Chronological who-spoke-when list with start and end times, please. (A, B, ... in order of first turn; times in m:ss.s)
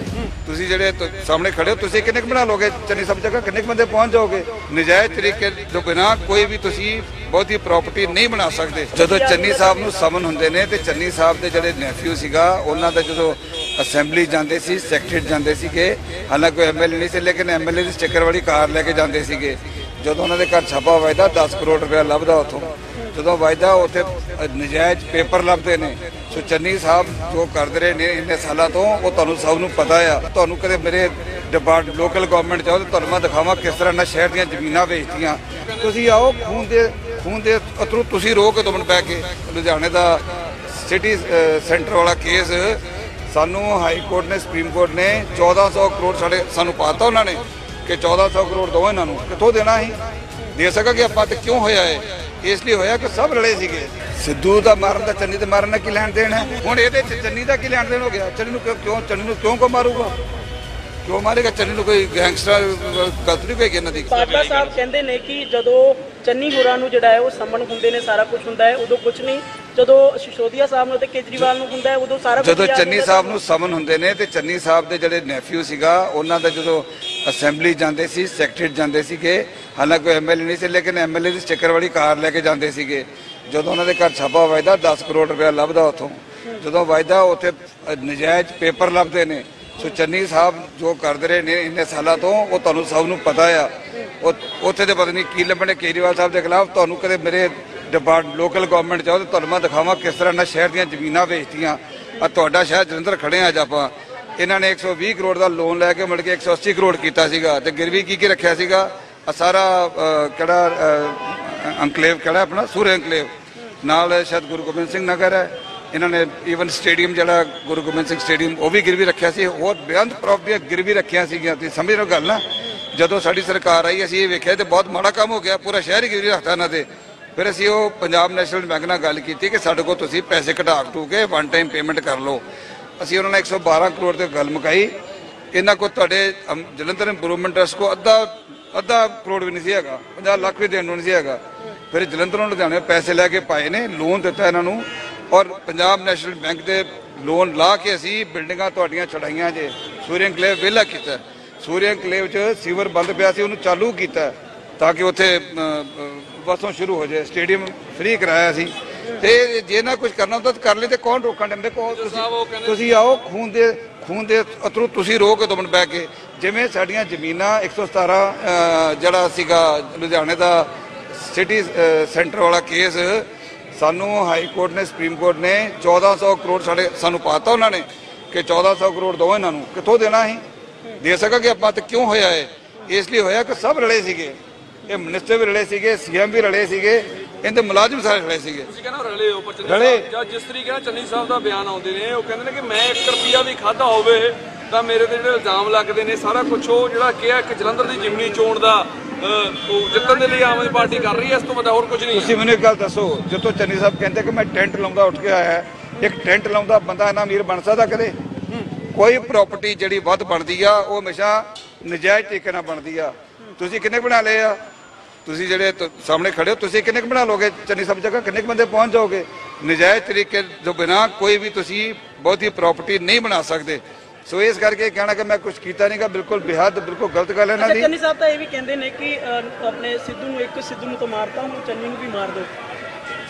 0:00.4-0:50.0 A
0:09.0-0:09.9 B
0:50.5-1:00.2 A
1:01.0-1:04.2 A
1:04.1-1:13.4 B
1:04.4-1:04.6 C
1:12.4-1:53.3 A
1:53.8-2:12.4 A
2:13.0-2:15.0 A
2:15.5-3:00.4 A
2:41.9-2:42.9 C
3:01.0-3:04.4 A
3:04.9-3:08.7 A
3:08.7-3:22.4 C
3:09.6-3:10.0 A
3:19.9-3:21.4 B
3:22.1-3:28.1 A
3:28.9-3:34.6 A
3:35.2-3:47.9 A
3:47.6-3:52.5 B